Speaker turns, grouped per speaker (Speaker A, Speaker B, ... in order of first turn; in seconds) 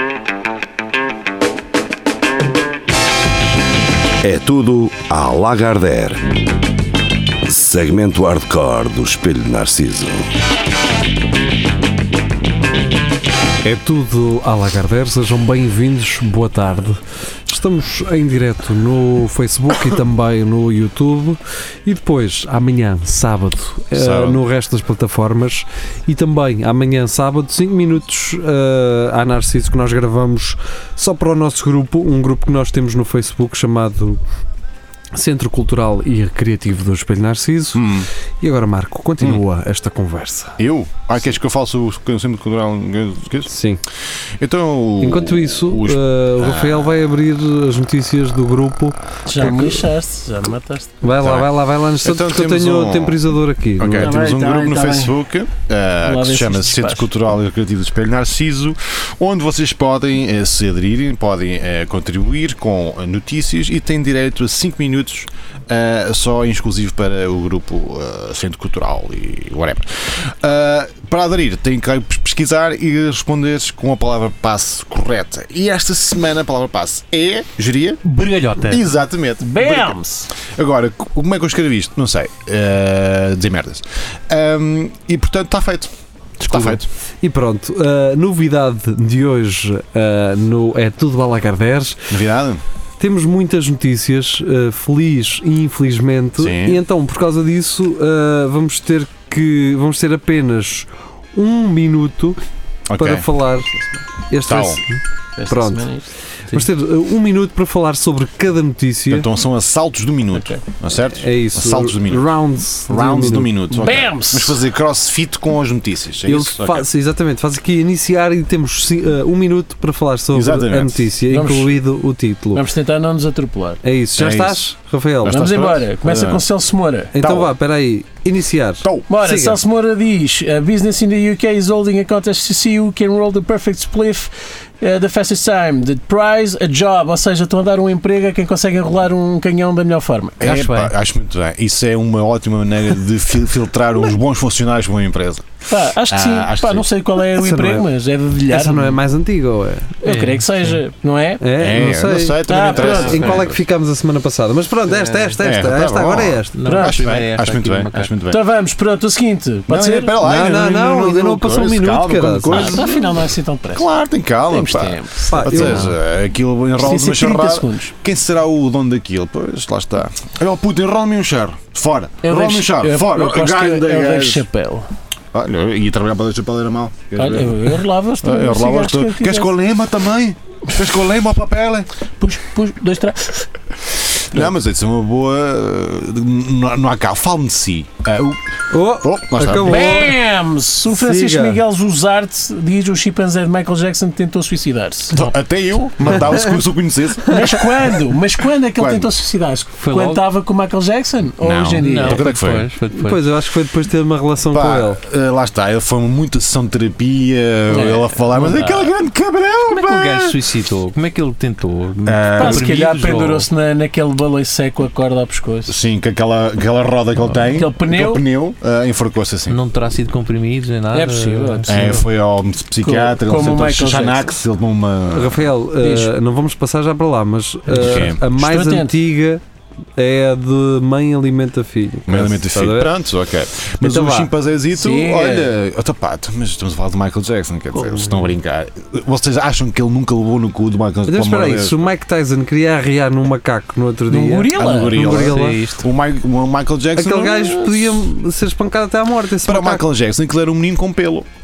Speaker A: 4.2-6.4, 7.4-10.2
Speaker B: 13.6-34.2, 35.1-40.6, 43.5-43.8, 45.0-49.6, 51.0-54.2, 87.2-92.2, 93.0-102.4, 103.0-105.9, 106.5-109.3, 111.1-113.6, 116.2-122.7, 123.8-125.5, 127.1-129.6, 147.3-147.9, 148.5-150.0, 151.4-156.6, 160.2-162.9, 165.3-165.9, 188.7-190.2, 190.9-191.6, 202.9-205.0, 225.1-229.4, 229.9-232.9, 233.8-234.3, 241.1-245.7, 246.9-249.8
Speaker C: 23.9-24.4, 37.7-38.1, 40.6-43.5, 44.4-46.9, 51.2-53.2, 53.8-78.0, 78.7-85.9, 86.4-86.9, 92.1-92.6, 96.4-96.8, 102.9-103.3, 104.5-104.8, 109.1-112.3, 112.9-116.9, 120.3-121.1, 124.2-124.7, 125.2-126.4, 127.2-127.5, 128.8-129.1, 140.4-146.9, 151.6-153.6, 155.4-158.4, 159.7-163.0, 163.7-174.4, 175.3-181.9, 184.1-188.4, 189.0-189.9, 195.1-197.6, 198.8-199.1, 201.4-202.7, 204.5-210.3, 212.1-212.7, 215.7-219.6, 221.7-225.5, 227.7-228.2, 232.1-241.9, 244.5-248.0, 249.4-251.3
Speaker D: 49.2-51.0, 54.0-55.2, 56.0-57.1, 79.4-80.3, 105.4-106.1, 113.7-114.6, 121.3-121.8, 122.5-123.8, 125.3-127.1, 129.1-140.4, 145.7-149.0, 150.0-151.4, 152.4-153.4, 154.9-155.3, 156.7-157.0, 158.3-160.1, 162.5-163.9, 164.5-165.9, 166.8-167.9, 172.2-174.9, 177.2-179.5, 182.2-183.5, 189.7-195.3, 197.2-202.3, 207.7-208.9, 212.4-215.7, 217.5-218.2, 220.9-222.0, 222.8-224.3, 225.8-226.1, 227.8-228.9, 234.7-235.5, 244.1-245.3
Speaker E: 78.0-78.8, 86.4-86.8, 140.4-140.9, 150.0-150.8, 156.5-158.1, 199.8-200.2, 201.8-203.3, 209.7-213.5, 219.5-221.8, 237.8-238.1, 245.2-245.8